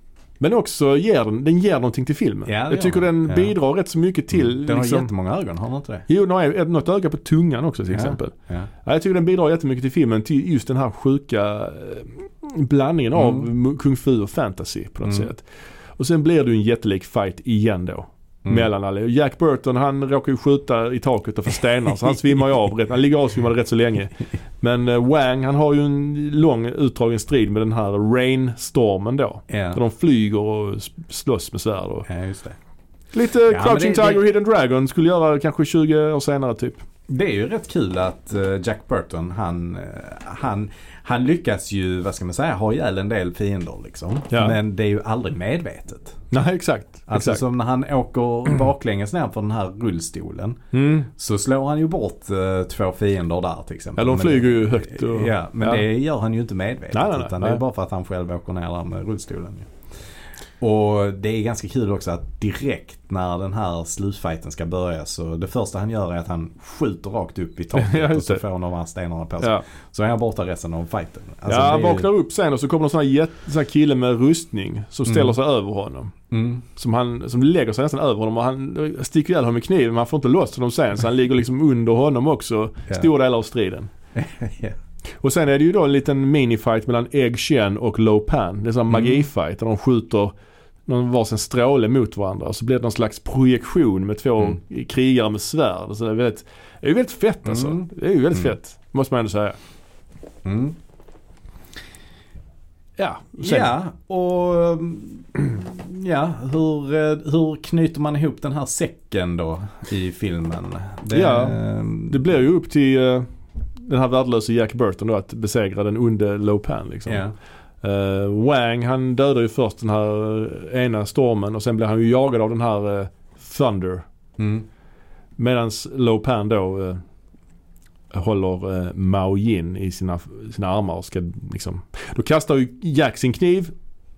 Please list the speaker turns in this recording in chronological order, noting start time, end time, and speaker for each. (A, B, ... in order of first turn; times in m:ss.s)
0:00.4-0:05.1 A
0:02.5-0:03.5 B
0:04.3-0:06.1 B
0:06.1-0:15.4 A
0:07.9-0:08.7 B
0:13.2-0:13.5 B
0:15.0-0:15.3 B
0:16.0-0:32.1 A
0:29.5-0:29.8 B
0:32.1-0:32.6 B
0:33.1-0:36.8 A
0:33.5-0:34.2 B
0:37.1-0:46.2 B
0:44.3-0:44.6 A
0:46.3-0:47.4 A
0:47.1-0:59.7 B
0:50.7-0:51.1 A
0:54.0-0:55.8 A
0:56.9-0:57.6 A
1:00.6-1:12.1 B
1:07.8-1:08.4 A
1:11.5-1:16.1 A
1:15.1-1:15.4 B
1:16.3-1:16.6 B
1:16.8-1:23.9 A
1:24.2-1:24.8 B
1:25.2-1:30.3 A
1:28.9-1:29.3 B
1:30.9-1:39.6 A
1:37.5-1:38.5 B
1:40.4-1:40.8 B
1:43.0-1:43.7 A
1:43.4-1:52.2 B
1:51.1-1:57.2 A
1:57.1-1:57.4 B
1:57.8-2:04.0 A
2:04.4-2:04.7 B
2:05.4-2:07.0 A
2:08.1-2:13.7 A